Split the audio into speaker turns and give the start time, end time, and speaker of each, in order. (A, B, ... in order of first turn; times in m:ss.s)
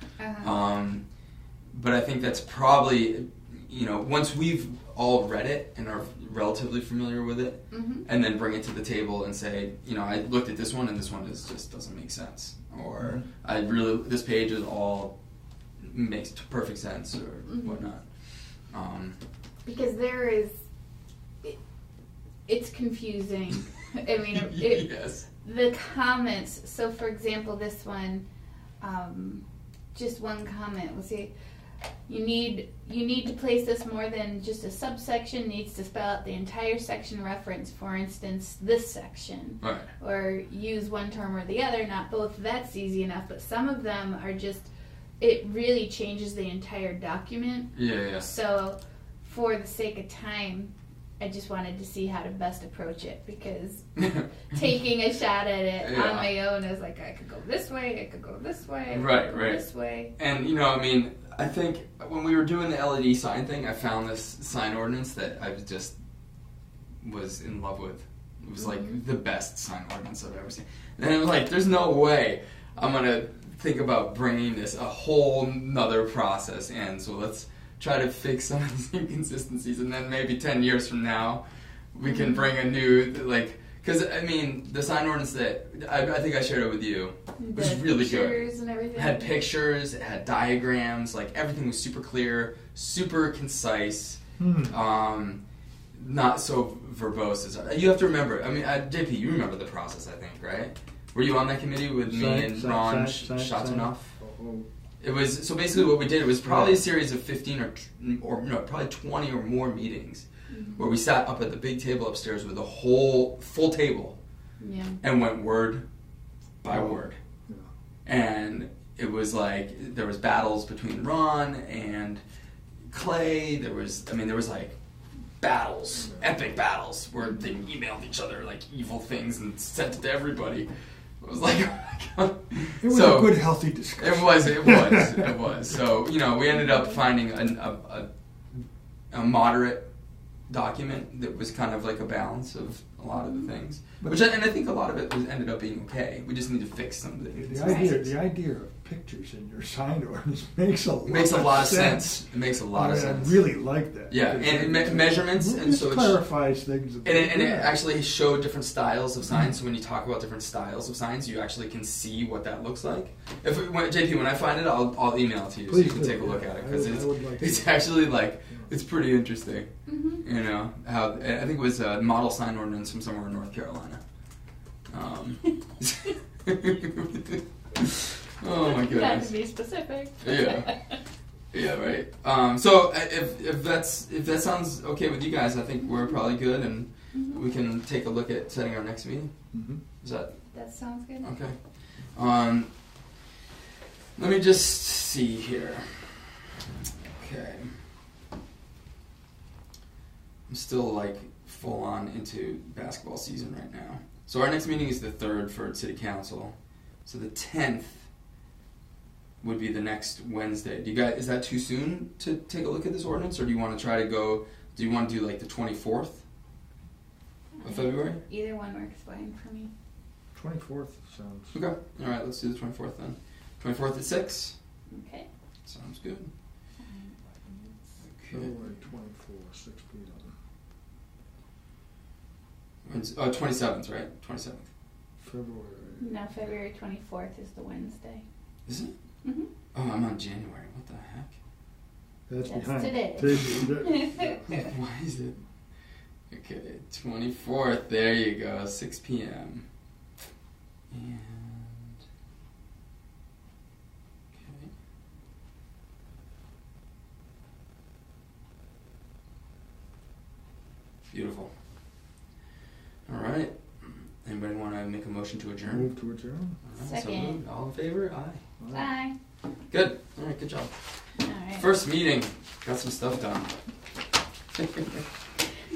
0:00.2-0:00.6 A
0:00.4-0:01.0 B
0:01.7-0:15.2 B
0:07.7-0:08.1 A
0:13.0-0:13.2 C
0:15.8-0:18.0 B
0:17.5-0:17.9 A
0:18.7-0:19.2 B
0:19.6-0:20.5 A
0:22.5-0:28.2 A
0:24.3-0:25.3 B
0:28.8-0:29.4 A
0:29.9-0:31.3 A
0:32.1-1:00.1 A
0:39.6-0:39.9 B
0:47.7-0:48.3 B
0:55.8-0:56.3 B
0:58.9-0:59.6 B
1:00.2-1:05.9 B
1:07.0-1:21.4 B
1:08.6-1:09.0 A
1:21.9-1:35.4 B
1:22.0-1:22.5 A
1:27.4-1:29.4 A
1:34.4-1:34.7 C
1:36.0-1:44.1 B
1:42.0-1:44.7 C
1:45.0-1:54.2 B
1:46.4-1:46.8 C
1:50.5-1:50.9 A
1:54.6-1:55.0 A
1:55.0-1:55.8 B
1:56.6-1:57.2 B
1:56.7-1:57.7 C
1:58.1-2:02.2 B
2:02.9-2:04.7 B
2:05.4-2:10.7 B
2:11.2-2:18.1 B
2:12.8-2:15.4 C
2:16.5-2:17.0 A
2:19.1-2:19.9 B
2:20.5-2:28.0 B
2:23.1-2:23.5 A
2:24.0-2:24.3 C
2:27.3-2:37.8 C
2:27.6-2:28.0 A
2:31.0-2:33.4 B
2:34.1-2:36.2 B
2:37.0-2:54.0 B
2:45.7-2:48.7 C
2:49.9-2:50.2 A
2:54.9-2:59.3 B
2:58.6-3:00.9 A
3:00.2-3:00.7 B
3:01.5-3:09.3 B
3:07.1-3:07.4 A
3:09.5-3:09.8 C
3:10.0-3:10.3 B
3:10.5-3:11.3 A
3:11.2-3:11.6 B
3:12.1-3:12.7 B
3:14.2-3:16.3 B
3:17.0-3:17.7 B
3:20.5-3:26.5 B
3:27.0-3:28.0 B
3:29.4-3:36.2 B
3:37.6-3:39.7 A
3:37.6-3:38.2 B
3:40.3-3:41.5 C
3:41.5-3:44.6 B
3:44.9-3:45.3 A
3:45.7-3:46.3 B
3:46.8-3:47.7 A
3:48.0-3:48.6 B
3:48.3-3:50.3 C
3:52.9-3:54.7 B
3:55.2-3:56.2 C
3:56.0-3:58.2 A
3:58.7-3:58.9 B
3:59.2-3:59.5 A
3:59.7-4:01.3 B
4:02.3-4:04.5 C
4:02.4-4:04.6 A
4:03.3-4:03.7 B
4:04.5-4:05.4 B
4:06.3-4:09.6 B
4:10.9-4:12.0 B
4:14.4-4:14.7 B
4:21.1-4:21.5 B
4:23.1-4:25.9 B
4:25.6-4:26.6 C
4:26.7-4:28.4 B
4:26.8-4:27.4 A
4:28.6-4:28.8 C
4:28.7-4:29.1 A
4:29.7-4:30.7 B
4:31.2-4:31.7 A
4:31.6-4:33.5 B